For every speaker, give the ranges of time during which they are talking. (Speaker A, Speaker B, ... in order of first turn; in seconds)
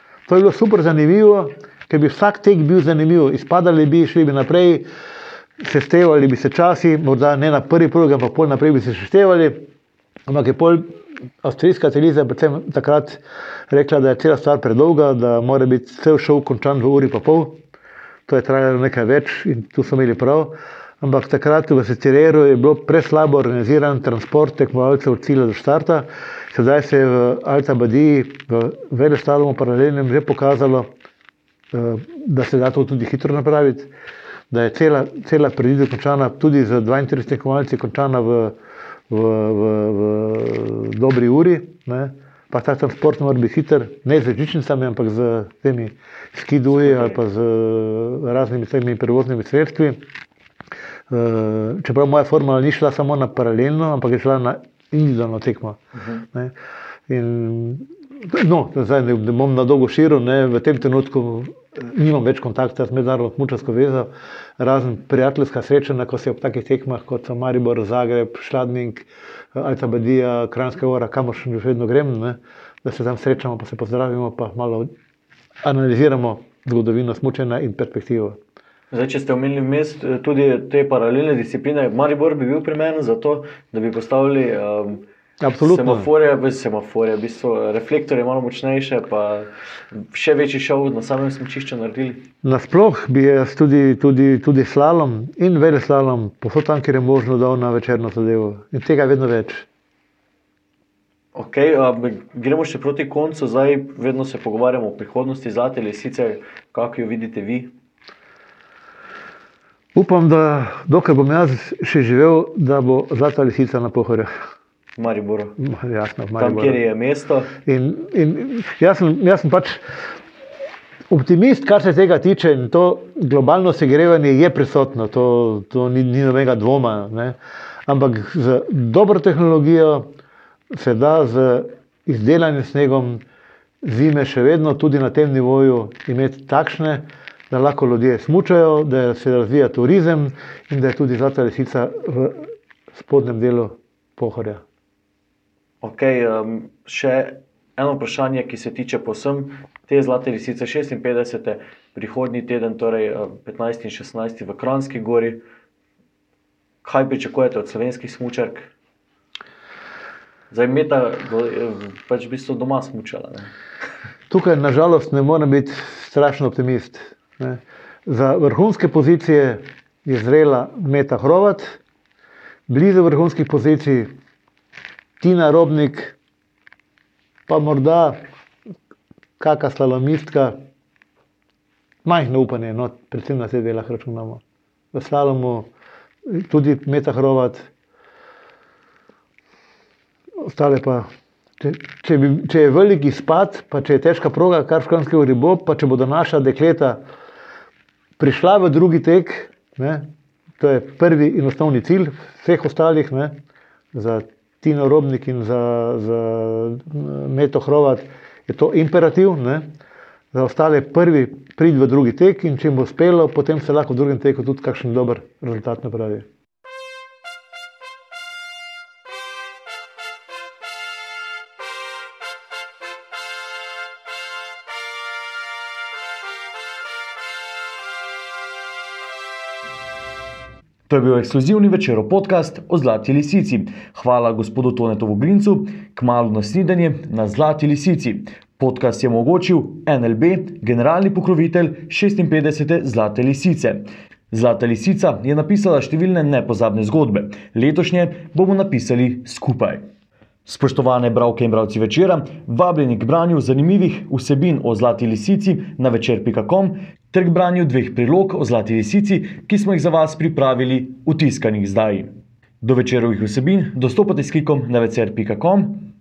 Speaker A: 0.3-4.9, 5.6-9.7, 10.3-17.6, 18.3-30.9, 31.7-33.9, 34.5-38.6, 39.1-50.0, 51.1-56.5, 57.1-74.9, 75.6-78.4, 85.4-86.1, 92.4-99.7, 110.0-114.3, 115.6-116.8, 117.7-119.8, 121.1-127.4, 127.9-130.1, 130.7-133.2, 133.8-144.6, 164.3-171.8, 172.7-174.1, 175.2-176.2, 177.5-178.2, 179.4-180.6, 182.0-184.4, 184.9-185.7, 186.3-187.7, 190.4-191.1, 191.6-197.0, 198.2-203.4, 203.9-209.7, 210.3-216.3
Speaker B: 46.8-47.2, 56.0-56.2, 78.9-85.0, 85.6-92.2, 101.3-107.7, 115.0-115.6, 116.4-117.5, 145.8-155.4, 156.8-158.7, 160.5-163.5, 241.0-241.3, 242.3-243.4, 244.7-249.8, 250.5-252.8, 254.4-255.1, 257.7-260.2, 261.0-262.1, 262.6-265.7
Speaker C: 230.9-243.8, 244.3-249.6, 250.5-261.9, 262.7-263.0